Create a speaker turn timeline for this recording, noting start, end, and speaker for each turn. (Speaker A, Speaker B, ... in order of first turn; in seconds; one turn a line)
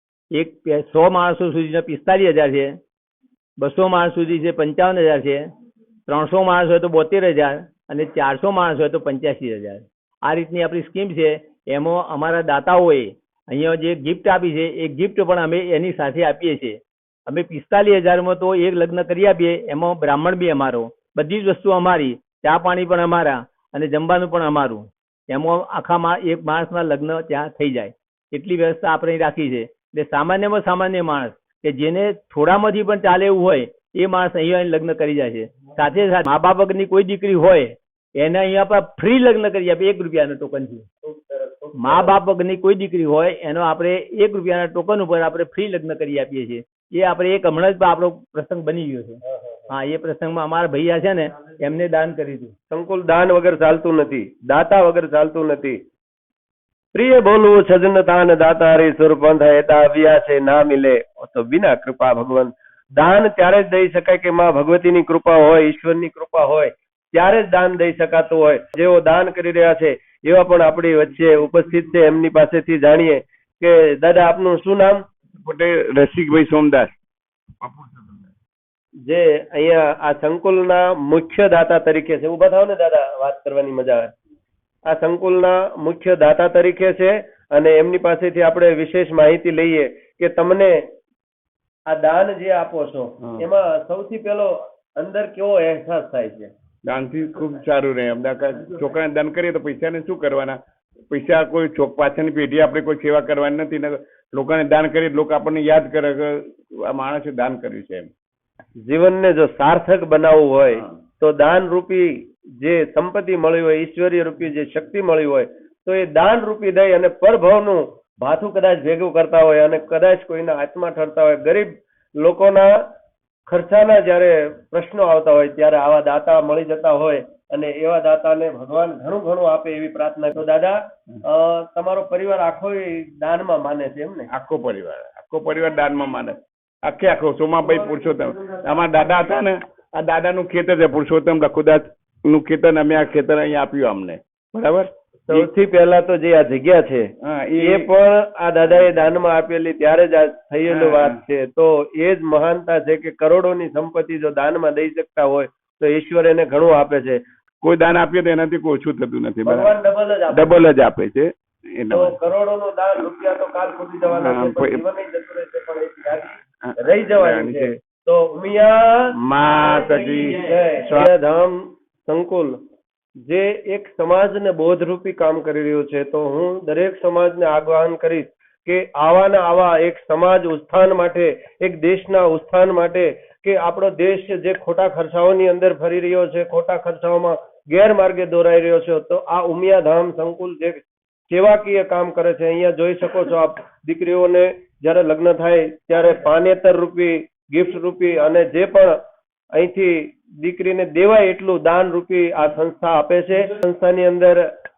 Speaker A: 0.3-2.8
Speaker A: 3.6-5.5
Speaker A: 6.1-40.9
Speaker B: 41.0-42.2
Speaker A: 41.8-49.2
Speaker B: 49.3-49.6
Speaker A: 49.7-52.5
Speaker B: 52.7-55.8
Speaker B: 56.9-75.0
Speaker C: 75.4-77.0
Speaker C: 77.6-78.3
Speaker B: 79.0-84.1
Speaker B: 84.9-90.8
Speaker B: 91.9-96.5
Speaker C: 96.8-100.6
Speaker C: 101.1-108.1
Speaker B: 108.8-122.8
Speaker B: 123.5-134.3
Speaker C: 134.3-145.5
Speaker B: 145.3-157.2
Speaker C: 147.2-147.9
Speaker C: 150.7-151.2
Speaker C: 157.6-159.7
Speaker B: 159.4-160.6
Speaker C: 160.3-162.2
Speaker B: 161.9-169.1
Speaker C: 164.1-164.8
Speaker C: 166.6-167.8
Speaker C: 169.2-171.1
Speaker B: 170.3-172.6
Speaker B: 173.2-199.0
Speaker B: 199.5-204.4